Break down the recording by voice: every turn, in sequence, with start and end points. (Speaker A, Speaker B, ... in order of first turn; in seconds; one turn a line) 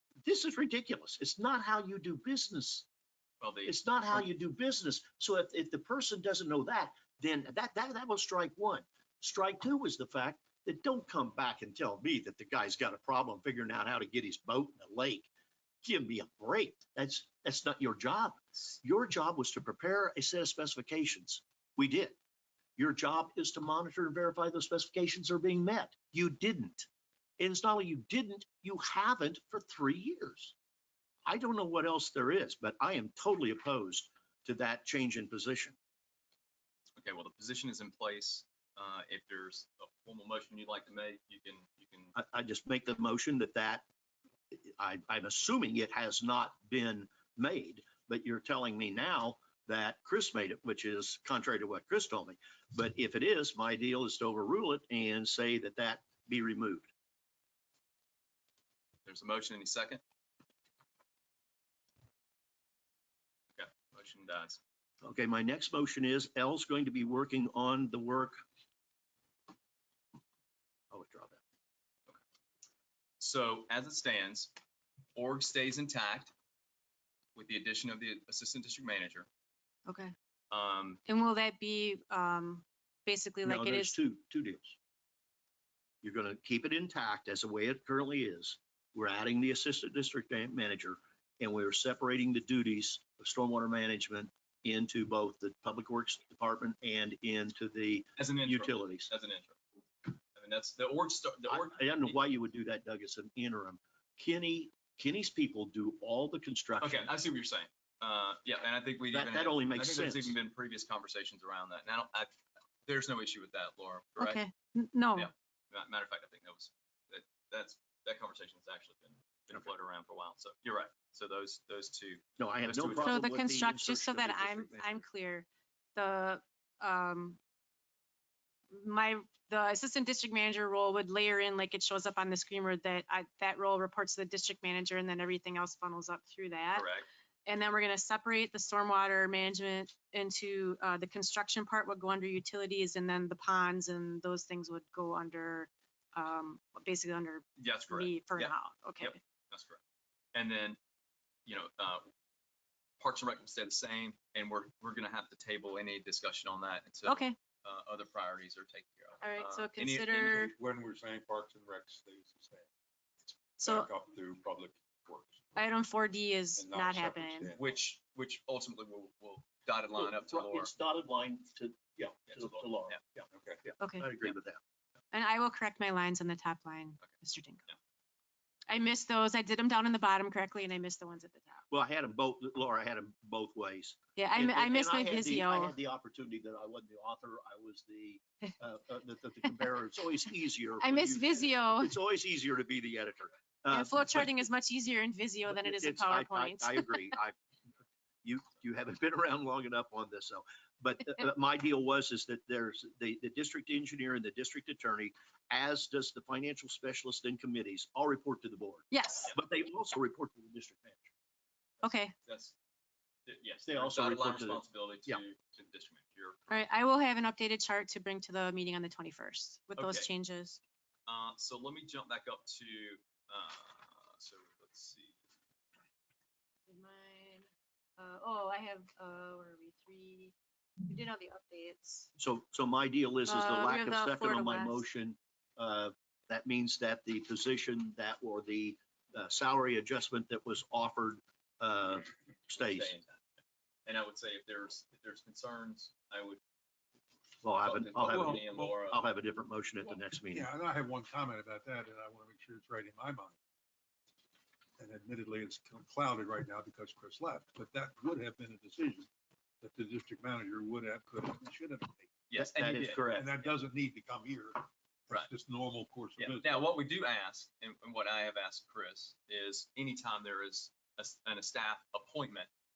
Speaker A: 0.2-2.9
Speaker B: 3.4-4.2
Speaker A: 3.6-15.3
Speaker A: 15.8-22.2
Speaker A: 22.8-26.9
Speaker A: 27.4-30.5
Speaker A: 31.2-35.8
Speaker B: 37.0-42.1
Speaker A: 42.1-43.8
Speaker A: 44.5-56.9
Speaker B: 59.0-60.0
Speaker B: 63.5-64.6
Speaker A: 65.0-68.4
Speaker A: 70.9-71.4
Speaker B: 73.2-74.5
Speaker B: 75.1-76.3
Speaker B: 77.3-79.3
Speaker C: 79.8-80.1
Speaker B: 80.5-81.0
Speaker C: 81.1-84.0
Speaker A: 83.4-84.7
Speaker A: 86.0-99.1
Speaker B: 98.2-99.5
Speaker B: 100.3-102.2
Speaker A: 101.5-107.1
Speaker B: 106.8-112.3
Speaker A: 109.1-110.4
Speaker B: 112.8-114.4
Speaker C: 114.2-115.3
Speaker B: 115.2-123.2
Speaker A: 122.4-125.0
Speaker C: 123.0-127.4
Speaker C: 128.7-136.9
Speaker B: 136.7-137.1
Speaker C: 137.4-149.2
Speaker B: 147.6-149.8
Speaker B: 150.3-150.8
Speaker B: 151.5-152.1
Speaker B: 153.0-160.5
Speaker C: 157.1-157.3
Speaker C: 159.2-160.5
Speaker D: 160.3-162.7
Speaker D: 163.3-165.6
Speaker C: 163.6-163.9
Speaker C: 165.6-167.5
Speaker D: 166.6-167.6
Speaker B: 167.6-170.7
Speaker A: 170.0-174.6
Speaker B: 172.3-173.0
Speaker D: 173.3-173.6
Speaker C: 175.1-177.7
Speaker C: 178.7-181.7
Speaker A: 181.7-194.4
Speaker C: 184.2-185.7
Speaker C: 190.8-191.9
Speaker C: 193.7-197.1
Speaker A: 195.4-197.3
Speaker A: 198.2-211.1
Speaker C: 208.9-209.3
Speaker C: 211.8-212.1
Speaker B: 212.2-212.5
Speaker B: 213.3-216.5
Speaker A: 213.7-215.2
Speaker C: 216.5-220.6
Speaker B: 219.8-220.1
Speaker B: 221.1-225.2
Speaker C: 226.7-232.1
Speaker A: 232.2-242.9
Speaker C: 233.3-234.8
Speaker B: 242.5-243.2
Speaker B: 243.8-246.4
Speaker A: 247.4-250.5
Speaker B: 247.6-249.0
Speaker D: 248.0-248.7
Speaker D: 250.3-253.4
Speaker D: 254.8-259.1
Speaker D: 259.6-262.1
Speaker B: 262.3-263.1
Speaker A: 262.4-263.5
Speaker D: 263.0-266.7
Speaker B: 266.2-272.5